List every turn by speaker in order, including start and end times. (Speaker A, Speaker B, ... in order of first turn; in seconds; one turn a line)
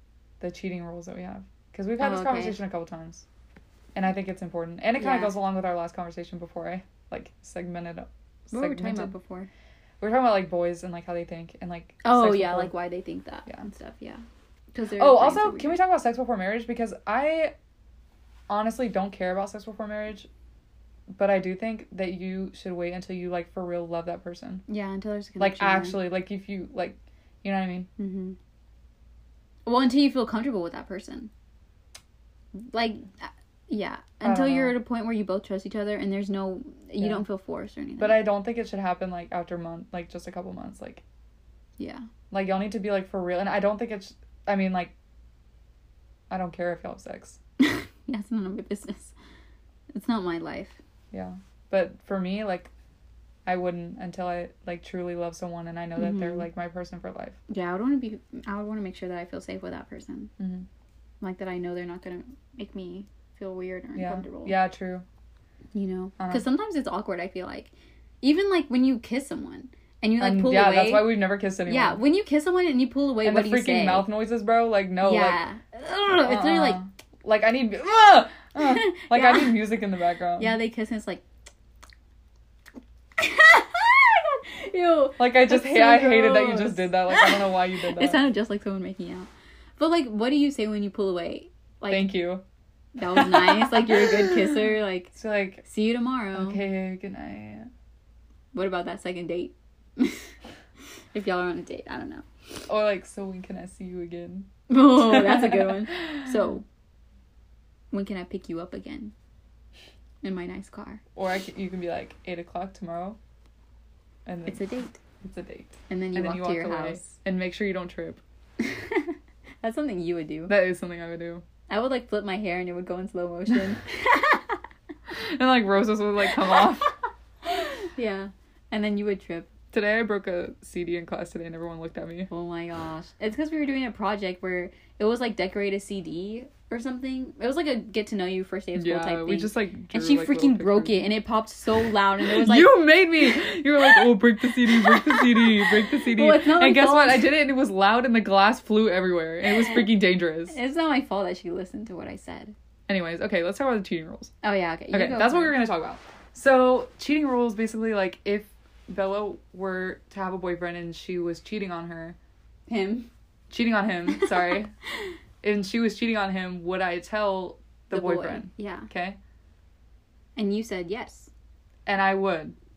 Speaker A: 0.4-3.2
Speaker B: 2.0-2.6
Speaker A: 3.9-9.1
Speaker B: 5.0-5.4
Speaker B: 8.5-9.5
Speaker A: 10.0-12.7
Speaker B: 12.0-15.8
Speaker A: 14.9-17.5
Speaker A: 18.5-20.3
Speaker A: 21.1-24.6
Speaker B: 24.7-26.0
Speaker A: 25.4-27.9
Speaker B: 28.0-28.4
Speaker B: 29.6-31.3
Speaker B: 32.5-38.2
Speaker A: 34.2-34.8
Speaker A: 38.0-41.0
Speaker B: 41.8-42.0
Speaker A: 42.3-44.9
Speaker A: 46.3-47.4
Speaker B: 47.6-49.1
Speaker B: 49.9-50.8
Speaker A: 51.1-52.7
Speaker A: 53.5-57.4
Speaker B: 56.0-56.5
Speaker B: 57.5-60.3
Speaker A: 60.4-60.7
Speaker B: 61.2-64.5
Speaker A: 64.0-65.0
Speaker B: 65.7-74.1
Speaker A: 66.2-66.4
Speaker A: 70.2-72.0
Speaker A: 73.2-75.4
Speaker B: 75.0-76.8
Speaker A: 76.2-80.6
Speaker B: 78.6-79.6
Speaker B: 80.4-81.2
Speaker B: 83.2-92.1
Speaker A: 85.2-88.2
Speaker A: 91.9-92.4
Speaker B: 93.0-96.6
Speaker A: 93.1-95.6
Speaker A: 96.3-97.7
Speaker B: 98.5-100.3
Speaker B: 101.1-102.2
Speaker A: 102.7-105.7
Speaker B: 104.7-106.6
Speaker B: 107.9-109.1
Speaker B: 110.2-111.0
Speaker A: 111.2-113.2
Speaker A: 114.2-114.6
Speaker B: 114.5-115.0
Speaker A: 115.2-118.2
Speaker B: 115.9-117.1
Speaker B: 118.6-120.5
Speaker A: 120.5-121.5
Speaker B: 121.7-124.6
Speaker A: 125.1-126.9
Speaker B: 126.4-126.7
Speaker B: 127.4-129.5
Speaker A: 129.7-132.3
Speaker B: 132.3-147.4
Speaker A: 138.7-141.1
Speaker A: 142.2-150.6
Speaker B: 149.4-149.9
Speaker B: 150.5-152.5
Speaker A: 152.9-154.3
Speaker B: 154.4-155.6
Speaker A: 154.9-162.2
Speaker B: 162.7-163.1
Speaker A: 163.5-164.7
Speaker B: 164.2-164.6
Speaker A: 165.4-169.2
Speaker B: 167.9-168.9
Speaker B: 170.3-171.3
Speaker A: 171.9-172.5